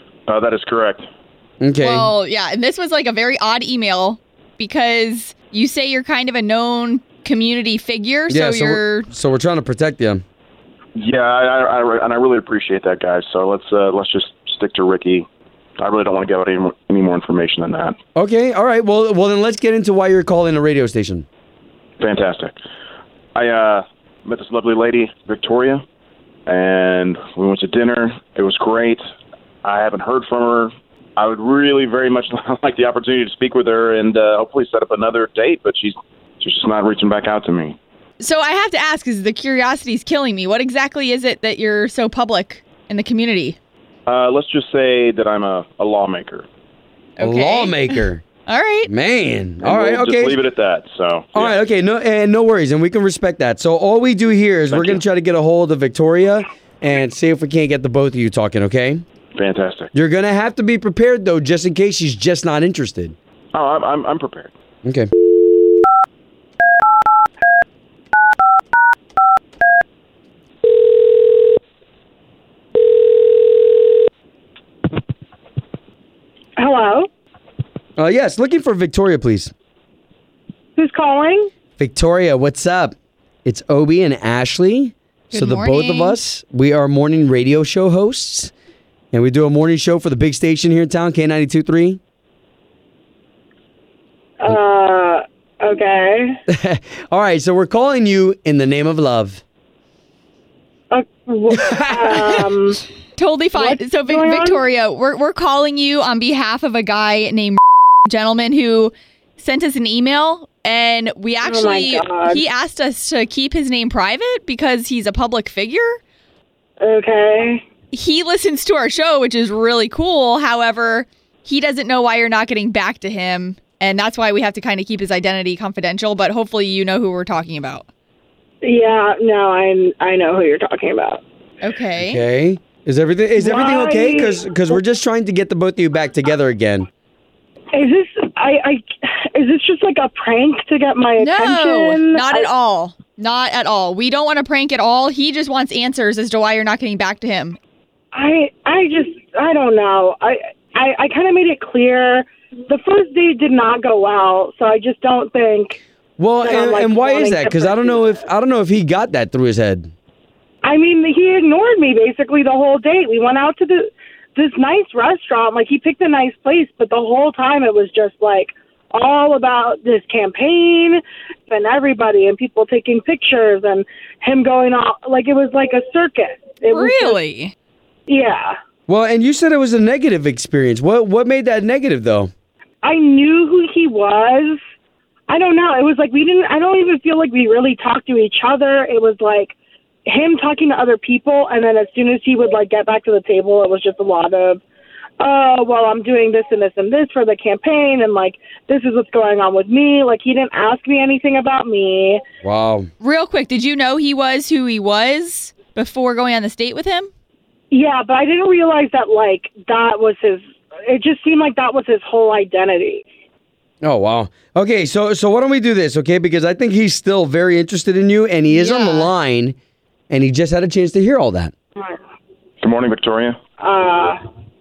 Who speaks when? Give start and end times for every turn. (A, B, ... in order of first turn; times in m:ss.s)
0:00.3-0:01.0 A
0:01.6-0:02.1 B
0:01.8-0:09.1 C
0:08.3-0:10.2 B
0:11.0-0:15.3 A
0:15.8-0:18.0 A
0:18.2-0:21.2 B
0:22.0-0:22.6 A
0:23.3-0:25.8 A
0:26.5-0:29.0 A
0:29.6-0:37.8 A
0:38.2-0:43.6 C
0:44.1-0:46.4 A
0:47.2-0:48.9 C
0:47.2-0:48.2 B
0:48.9-0:50.4 B
0:49.6-0:51.6 A
0:51.3-0:59.0 B
0:54.7-0:55.0 A
0:59.4-0:59.9 A
0:59.9-1:03.1 B
1:03.5-1:04.5 A
1:16.6-1:17.1 D
1:18.0-1:19.5 B
1:20.8-1:21.5 D
1:21.8-1:28.5 B
1:25.3-1:26.2 C
1:29.1-1:32.0 B
1:34.4-1:36.4 D
1:36.5-1:39.4 B
1:40.9-1:42.8 D
1:41.6-1:42.4 B
1:43.2-1:56.0 C
1:43.6-1:44.6 D
1:51.4-1:52.4 D
1:56.8-1:57.6 D
1:57.9-2:07.8 C
2:08.6-2:11.2 D
2:11.6-2:12.2 C
2:12.0-2:16.9 B
2:13.4-2:14.8 D
2:17.7-2:22.5 D
2:21.2-2:27.6 C
2:28.1-2:35.8 D
2:36.2-2:39.9 B
2:36.4-2:38.2 D
2:40.6-2:57.2 D
2:56.7-2:57.5 C
2:58.1-2:58.5 D
2:58.9-3:02.3 B
3:02.8-3:04.6 D
3:05.3-3:09.5 D
3:10.1-3:14.6 D
3:15.2-3:22.2 D
3:22.4-3:22.9 B
3:23.0-3:27.1 C
3:27.7-3:33.0 D
3:33.8-3:39.5 B
3:38.5-3:39.1 C
3:40.1-3:41.5 B
3:42.6-3:43.4 A
3:43.6-3:44.2 D